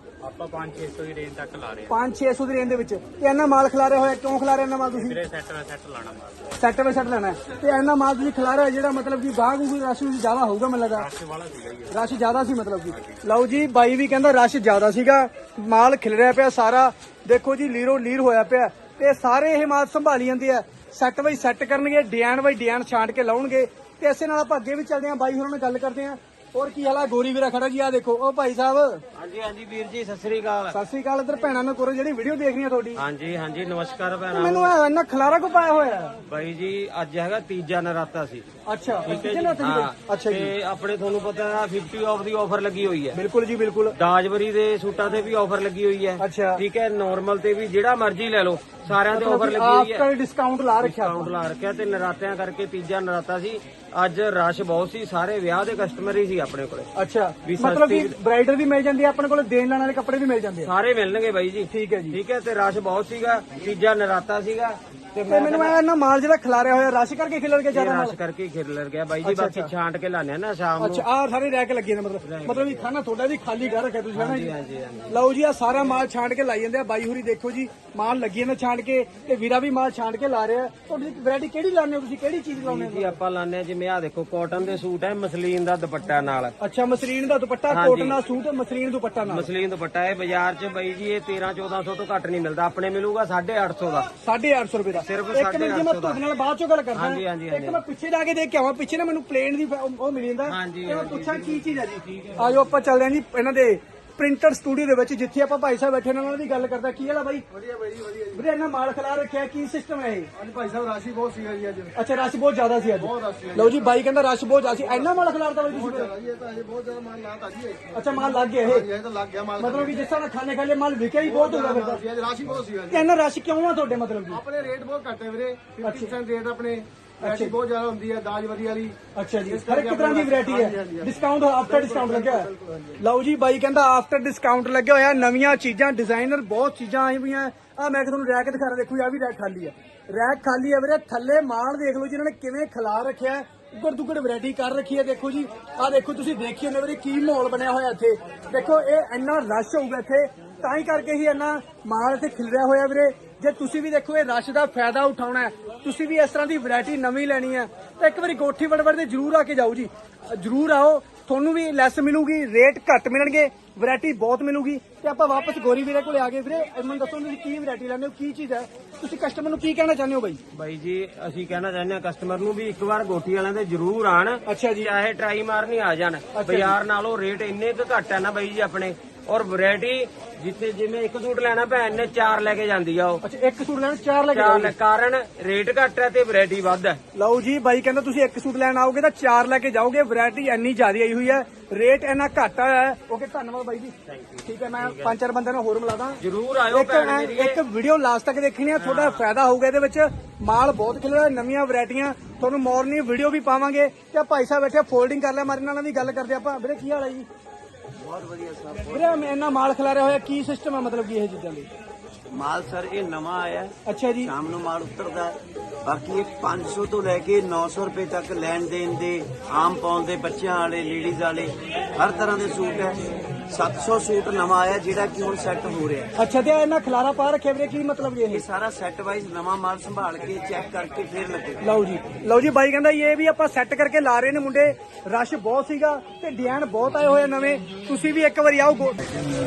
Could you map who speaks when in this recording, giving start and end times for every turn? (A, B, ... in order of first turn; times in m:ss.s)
0:00.2-0:01.9 A
0:01.9-0:05.2 B
0:05.0-0:06.3 A
0:06.6-0:11.1 B
0:11.1-0:11.8 A
0:11.9-0:29.0 B
0:29.2-0:30.8 A
0:30.7-0:33.0 B
0:33.0-0:34.7 A
0:34.3-0:36.1 B
0:36.2-0:38.4 A
0:38.7-0:40.5 B
0:39.0-0:43.2 A
0:43.1-0:43.9 B
0:43.9-0:50.0 A
0:46.2-0:46.6 B
0:49.1-0:51.3 B
0:50.8-0:56.9 A
0:56.9-1:00.7 B
0:57.4-0:58.1 A
1:00.6-1:05.8 A
1:01.7-1:02.2 B
1:05.3-1:08.2 B
1:07.7-1:11.0 A
1:09.2-1:09.7 B
1:10.8-1:14.5 B
1:12.2-1:12.8 A
1:14.1-1:15.2 A
1:15.1-1:23.2 B
1:22.6-1:26.5 A
1:26.6-1:29.5 B
1:27.7-1:28.2 A
1:29.2-1:34.1 A
1:34.2-1:47.4 B
1:34.9-1:36.2 A
1:36.9-1:37.8 A
1:40.4-1:41.6 A
1:47.5-1:48.4 C
1:48.3-1:50.3 B
1:50.4-1:51.9 C
1:51.9-1:56.1 B
1:53.0-1:53.9 C
1:55.7-2:00.0 C
1:57.9-1:58.9 B
1:59.6-2:02.0 B
2:01.2-2:03.1 C
2:02.9-2:04.4 B
2:04.3-2:11.1 C
2:05.8-2:06.1 B
2:07.2-2:07.5 B
2:09.1-2:12.5 B
2:11.6-2:13.0 C
2:13.0-2:50.4 B
2:50.5-3:03.2 A
2:54.4-2:54.9 B
2:56.3-2:56.8 B
3:03.2-3:04.7 B
3:04.3-3:07.0 A
3:07.1-3:27.3 B
3:14.1-3:15.2 A
3:16.2-3:17.6 A
3:18.8-3:19.2 A
3:28.0-3:29.2 D
3:28.9-3:31.7 B
3:32.3-3:46.1 D
3:33.8-3:34.3 B
3:46.2-3:48.4 B
3:48.3-3:51.6 D
3:51.6-3:59.0 B